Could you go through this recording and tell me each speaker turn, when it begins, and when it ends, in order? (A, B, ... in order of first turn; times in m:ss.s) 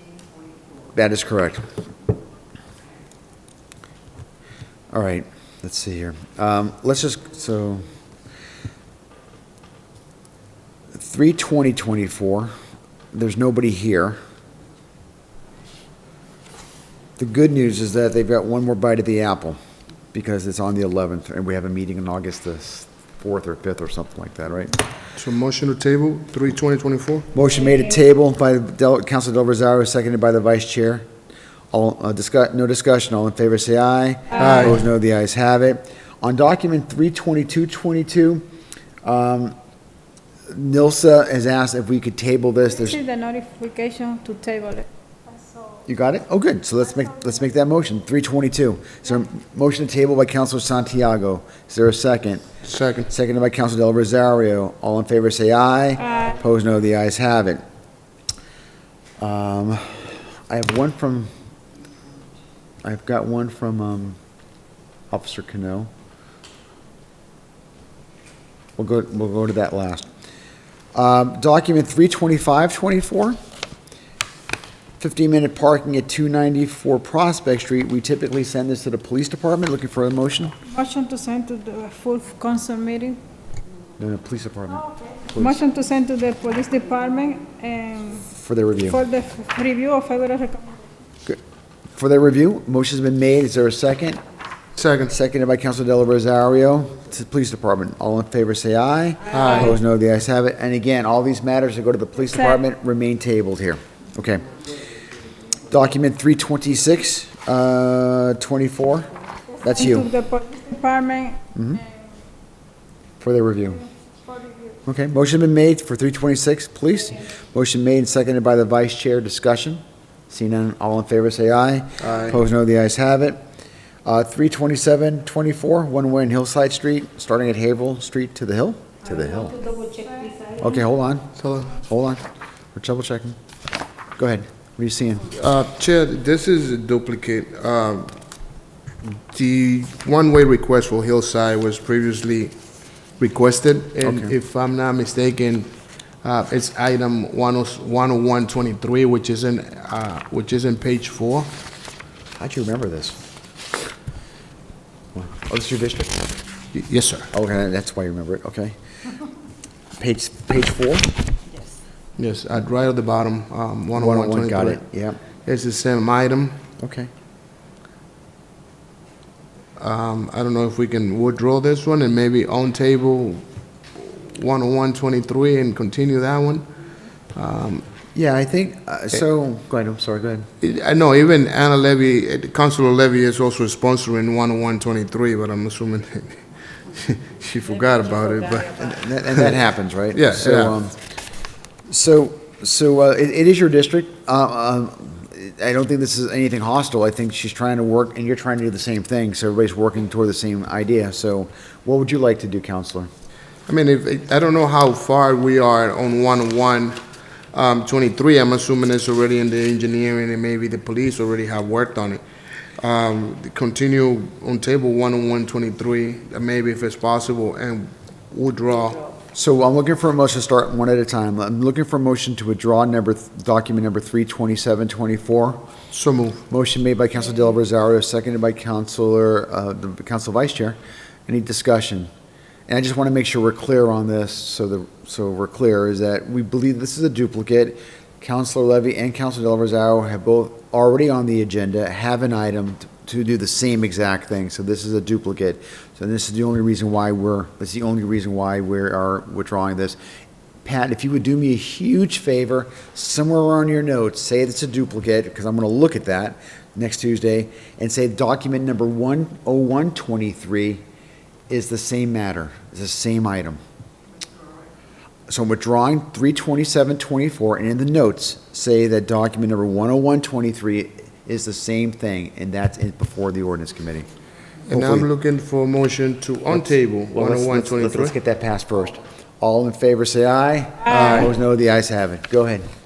0:00.9-0:01.6 A
0:04.9-0:07.9 A
0:10.9-0:12.5 A
0:13.1-0:14.2 A
0:17.2-0:19.6 A
0:20.1-0:24.8 A
0:25.2-0:27.3 B
0:27.3-0:31.0 A
0:31.7-0:38.4 A
0:34.3-0:34.8 B
0:39.0-0:39.6 A
0:40.5-0:43.0 A
0:42.9-0:45.8 C
0:45.8-0:52.4 A
0:52.6-0:53.1 B
0:53.1-0:57.6 A
0:59.2-1:01.3 A
1:02.8-1:04.2 A
1:05.1-1:05.9 A
1:08.8-1:10.1 A
1:10.9-1:13.4 A
1:15.0-1:20.5 A
1:20.7-1:23.2 C
1:24.0-1:25.6 A
1:25.3-1:28.3 C
1:28.3-1:29.0 A
1:28.9-1:30.9 C
1:32.0-1:34.2 A
1:34.8-1:35.1 B
1:35.1-1:44.6 A
1:39.3-1:39.8 B
1:45.6-1:49.1 A
1:49.6-1:50.1 A
1:49.6-1:51.9 C
1:51.5-1:51.8 A
1:53.2-1:53.8 A
1:54.2-1:54.8 C
1:54.8-2:03.4 A
2:02.0-2:02.4 B
2:04.0-2:09.6 A
2:09.5-2:10.4 C
2:10.6-2:13.4 A
2:11.4-2:11.8 B
2:14.2-2:15.4 A
2:15.3-2:18.1 B
2:19.3-2:22.5 B
2:23.2-2:25.7 B
2:24.0-2:24.3 A
2:26.2-2:31.5 B
2:32.4-2:33.2 A
2:35.1-2:36.3 A
2:36.7-2:37.3 B
2:37.3-2:38.7 A
2:40.0-2:41.1 A
2:42.2-2:44.8 B
2:43.9-2:45.2 A
2:45.4-2:46.6 B
2:46.8-2:47.1 A
2:49.8-2:53.4 B
2:54.0-2:56.6 B
2:57.3-2:57.8 B
2:58.1-3:00.5 A
3:00.6-3:09.6 B
3:08.8-3:11.0 A
3:10.1-3:10.8 B
3:11.9-3:23.1 A
3:23.7-3:27.0 B
3:27.5-3:32.2 B
3:32.8-3:39.1 B
3:39.3-3:45.6 A
3:45.9-3:46.4 B
3:46.5-3:52.1 A
3:52.7-4:10.0 A
4:10.6-4:20.8 A
4:21.5-4:23.6 A
4:25.3-4:34.1 A
4:34.6-4:38.1 B
4:34.7-4:35.1 A
4:36.5-4:42.6 A
4:40.8-4:41.3 B